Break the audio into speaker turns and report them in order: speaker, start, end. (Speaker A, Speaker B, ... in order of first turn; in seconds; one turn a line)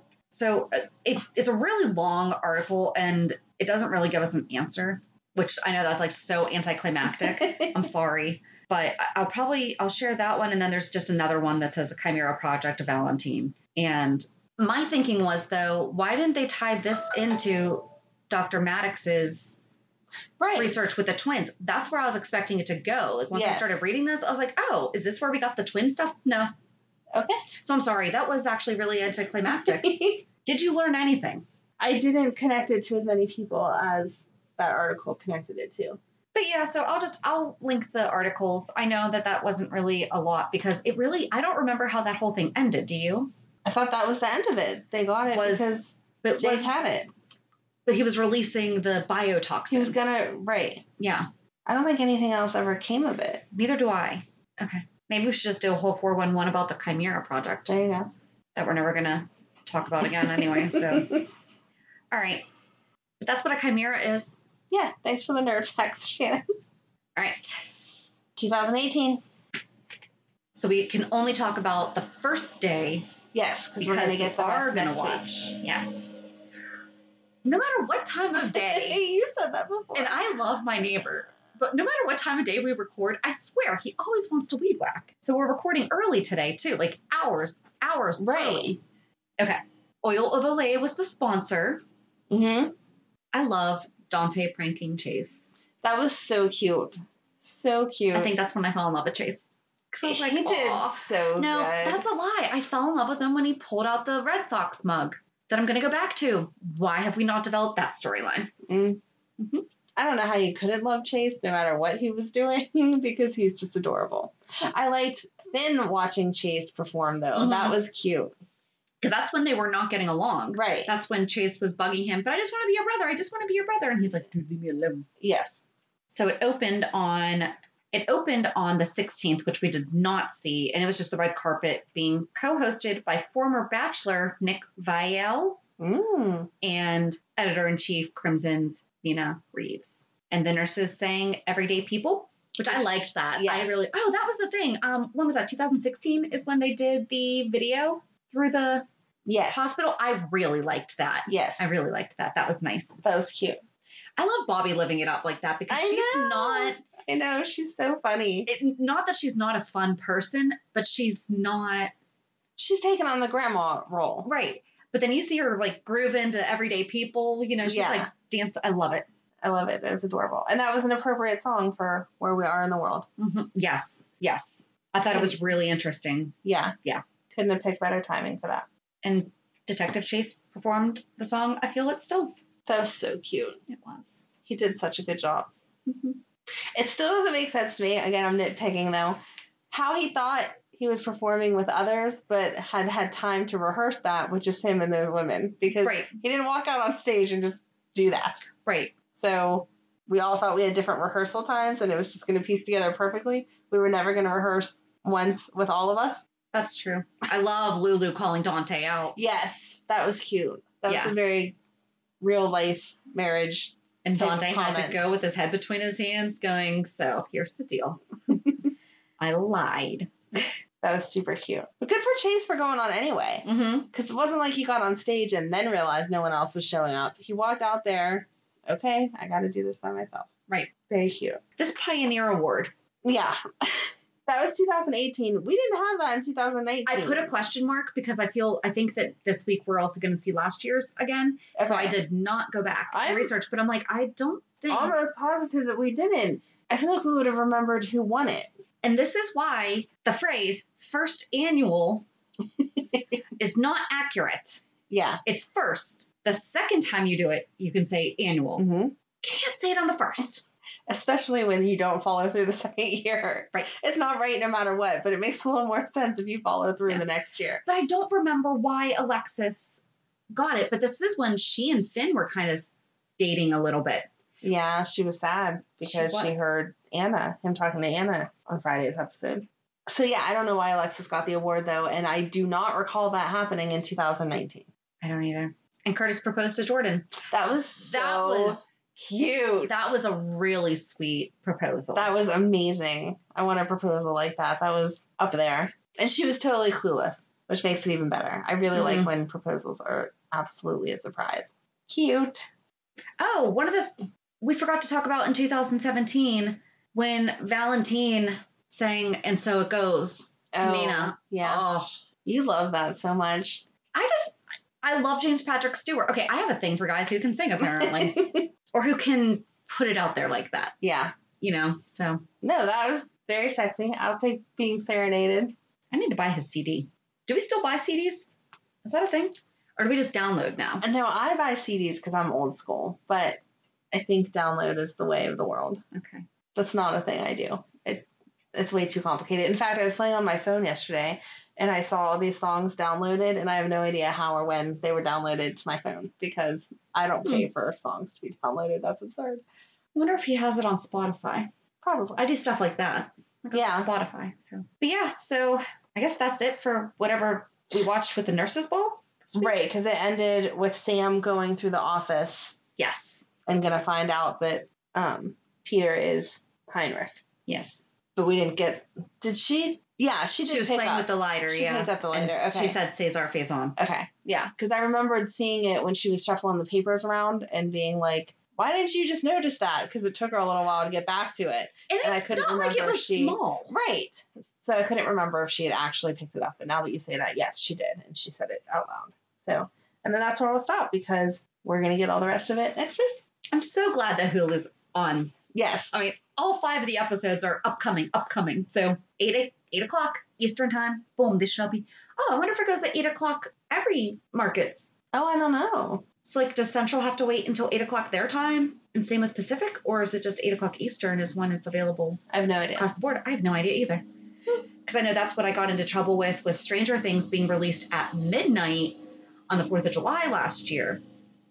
Speaker A: 0.3-19.6
Speaker B: 7.1-7.8
Speaker B: 20.4-20.9
Speaker A: 20.6-26.5
Speaker B: 23.3-23.8
Speaker B: 27.1-27.4
Speaker A: 27.6-29.9
Speaker B: 29.5-30.2
Speaker A: 30.4-31.4
Speaker B: 31.8-36.0
Speaker A: 36.3-43.3
Speaker B: 43.6-47.1
Speaker A: 45.3-46.7
Speaker A: 47.9-50.0
Speaker B: 49.7-50.8
Speaker A: 51.0-51.3
Speaker B: 51.7-53.4
Speaker A: 53.5-57.8
Speaker B: 57.7-58.1
Speaker A: 58.5-61.2
Speaker B: 60.2-61.2
Speaker A: 62.1-62.5
Speaker A: 63.2-64.4
Speaker B: 64.7-66.5
Speaker A: 67.2-67.6
Speaker B: 68.4-69.2
Speaker A: 70.5-73.1
Speaker B: 73.3-75.3
Speaker A: 73.8-76.1
Speaker A: 77.5-79.0
Speaker B: 78.3-80.2
Speaker A: 80.0-88.8
Speaker B: 88.2-88.8
Speaker A: 89.4-91.8
Speaker B: 92.3-92.7
Speaker A: 93.3-95.5
Speaker B: 95.8-98.3
Speaker A: 98.1-108.5
Speaker B: 100.0-102.0
Speaker B: 108.7-109.0
Speaker A: 109.4-109.7
Speaker B: 110.0-118.3
Speaker A: 117.3-117.8
Speaker A: 119.0-125.1
Speaker B: 120.5-120.9
Speaker B: 125.2-125.6
Speaker A: 126.1-135.6
Speaker B: 135.8-136.5
Speaker A: 136.6-148.9
Speaker B: 142.7-143.9
Speaker B: 149.3-149.7
Speaker A: 149.5-153.0
Speaker B: 151.3-151.7
Speaker B: 153.0-153.6
Speaker A: 154.2-156.8
Speaker B: 155.7-158.5
Speaker A: 158.5-161.9
Speaker B: 162.6-164.3
Speaker A: 164.2-169.1
Speaker B: 167.6-168.1
Speaker B: 169.4-173.1
Speaker A: 173.2-177.0
Speaker B: 175.1-175.4
Speaker B: 176.4-176.8
Speaker B: 177.3-178.7
Speaker A: 179.0-182.3
Speaker B: 182.7-183.6
Speaker A: 183.7-184.3
Speaker B: 184.4-185.5
Speaker A: 185.9-186.2
Speaker B: 186.7-198.5
Speaker A: 195.8-196.2
Speaker A: 198.7-198.9
Speaker B: 199.1-206.2
Speaker A: 206.5-209.2
Speaker B: 209.2-211.6
Speaker A: 210.9-211.2
Speaker B: 212.2-215.0
Speaker A: 214.0-218.0
Speaker A: 219.2-220.1
Speaker B: 220.8-230.3
Speaker A: 223.4-223.9
Speaker B: 230.8-231.4
Speaker A: 231.6-232.7
Speaker B: 233.0-237.3
Speaker A: 236.9-244.9
Speaker B: 241.6-242.0
Speaker B: 242.9-243.3
Speaker B: 244.7-248.5
Speaker A: 248.8-252.1
Speaker B: 252.8-253.0
Speaker A: 253.4-254.6
Speaker B: 254.9-255.2
Speaker A: 255.2-258.7
Speaker B: 258.6-258.9
Speaker A: 259.2-260.5
Speaker B: 260.9-267.6
Speaker A: 267.6-269.8
Speaker A: 270.3-274.1
Speaker B: 274.4-284.7
Speaker A: 275.8-276.4
Speaker A: 285.0-287.2
Speaker B: 287.3-289.9
Speaker A: 287.8-288.7
Speaker A: 289.7-292.1
Speaker B: 291.9-302.5
Speaker A: 298.7-299.1
Speaker A: 303.2-311.9
Speaker B: 310.5-311.6
Speaker B: 312.3-313.6
Speaker A: 313.9-320.8
Speaker B: 317.6-318.5
Speaker B: 320.8-321.1
Speaker A: 321.4-322.2
Speaker B: 322.4-325.6
Speaker A: 325.9-328.3
Speaker A: 328.8-330.9
Speaker B: 330.8-335.8
Speaker A: 335.9-336.3
Speaker B: 336.6-349.4
Speaker A: 349.9-351.5
Speaker B: 351.8-352.2
Speaker A: 352.1-359.5
Speaker B: 353.5-353.9
Speaker B: 359.4-362.6
Speaker A: 362.8-363.3
Speaker B: 363.5-367.2
Speaker A: 367.5-367.8
Speaker B: 368.2-372.8
Speaker A: 370.4-373.8
Speaker B: 373.8-393.2
Speaker A: 381.9-383.7
Speaker A: 393.5-395.3
Speaker B: 395.5-395.9
Speaker A: 395.9-404.9
Speaker B: 405.1-406.1
Speaker A: 406.2-412.2
Speaker B: 412.3-412.9
Speaker A: 412.8-414.0
Speaker A: 414.9-421.0